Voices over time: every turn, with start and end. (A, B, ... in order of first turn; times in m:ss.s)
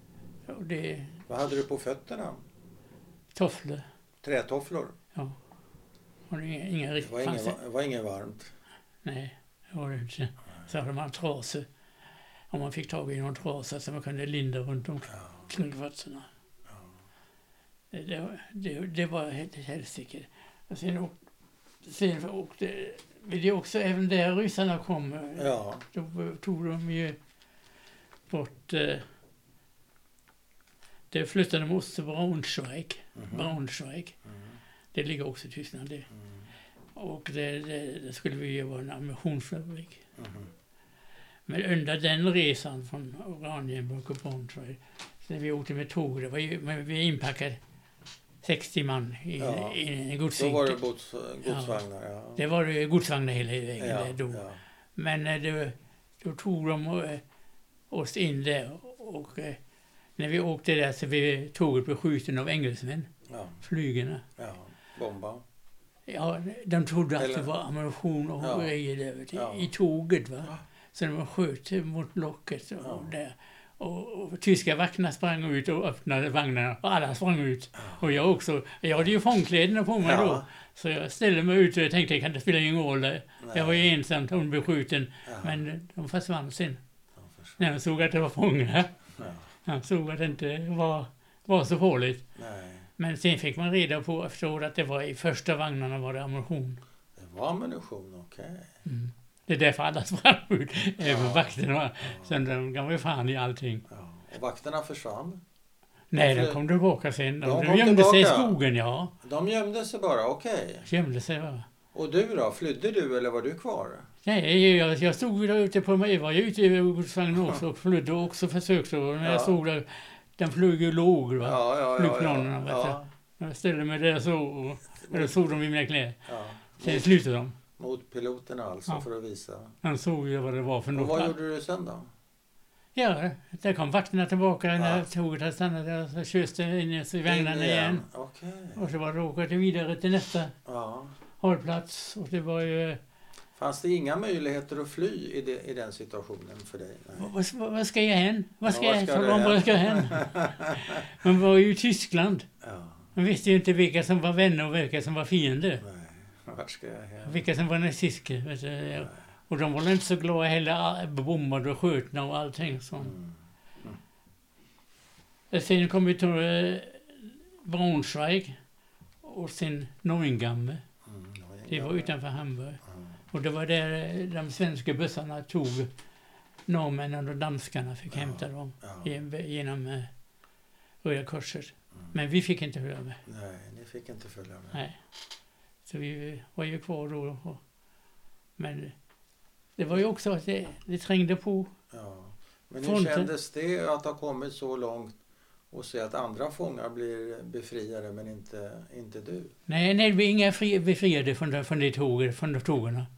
0:00.5-0:01.2 A
0:01.3-0:02.4 B
0:03.4-0:03.8 A
0:04.2-0:05.0 B
0:06.3-0:07.6 A
0:07.0-0:08.5 B
0:09.0-0:11.7 A
0:12.5-0:16.3 A
0:15.1-0:15.5 B
0:16.7-0:16.9 B
0:17.9-0:21.2 A
0:21.8-0:27.2 A
0:25.4-0:25.8 B
0:28.3-0:29.0 A
0:31.1-0:34.2 A
0:33.2-0:33.5 B
0:34.3-0:34.6 B
0:34.9-0:36.1 A
0:36.1-0:36.5 B
0:37.0-0:40.0 A
0:40.2-0:40.5 B
0:41.5-0:47.6 A
0:48.4-0:50.8 A
0:49.4-0:49.8 B
0:50.4-0:52.4 B
0:51.5-0:51.8 A
0:52.4-0:54.4 A
0:53.8-0:54.6 B
0:55.0-0:57.2 A
0:57.9-0:59.6 A
1:00.2-1:03.1 A
1:03.3-1:03.6 B
1:03.6-1:04.3 A
1:04.4-1:05.4 B
1:06.1-1:26.8 A
1:07.2-1:07.5 B
1:08.4-1:08.7 B
1:09.3-1:09.7 B
1:12.8-1:13.1 B
1:17.8-1:18.3 B
1:20.0-1:20.5 B
1:23.4-1:23.9 B
1:25.3-1:25.6 B
1:27.2-1:27.6 B
1:27.6-1:28.9 A
1:29.2-1:29.5 B
1:29.6-1:32.2 A
1:32.4-1:32.9 B
1:33.0-1:36.8 A
1:37.2-1:38.7 B
1:38.8-1:43.8 A
1:41.0-1:42.4 B
1:43.9-1:45.4 B
1:46.1-1:49.1 A
1:46.2-1:46.6 B
1:47.4-1:48.6 B
1:49.2-1:50.9 B
1:50.9-1:51.7 A
1:51.9-1:54.1 B
1:54.2-2:06.2 A
1:59.2-1:59.6 B
2:01.4-2:03.1 B
2:05.0-2:05.4 B
2:06.3-2:07.1 B
2:06.8-2:07.6 A
2:07.8-2:09.8 B
2:09.8-2:11.4 A
2:10.9-2:12.1 B
2:13.0-2:18.0 A
2:14.8-2:15.0 B
2:17.3-2:18.8 B
2:18.8-2:20.6 A
2:20.7-2:21.2 B
2:21.4-2:23.0 A
2:23.6-2:27.3 B
2:27.2-2:32.5 A
2:28.6-2:31.1 B
2:32.6-2:33.1 B
2:33.2-2:35.8 A
2:35.8-2:37.4 B
2:37.2-2:43.2 A
2:43.0-2:44.0 B
2:45.5-2:48.6 A
2:49.2-2:50.8 A
2:51.0-2:52.1 B
2:51.7-2:52.8 A
2:52.9-2:53.1 B
2:53.3-2:55.9 A
2:56.7-3:00.1 A
2:58.1-2:59.1 B
3:01.0-3:03.2 A
3:03.3-3:04.8 B
3:04.7-3:05.0 A
3:05.9-3:07.6 A
3:08.6-3:09.0 A
3:09.8-3:11.7 A
3:11.9-3:15.2 B
3:12.8-3:13.3 A
3:15.7-3:19.5 B
3:19.7-3:23.1 A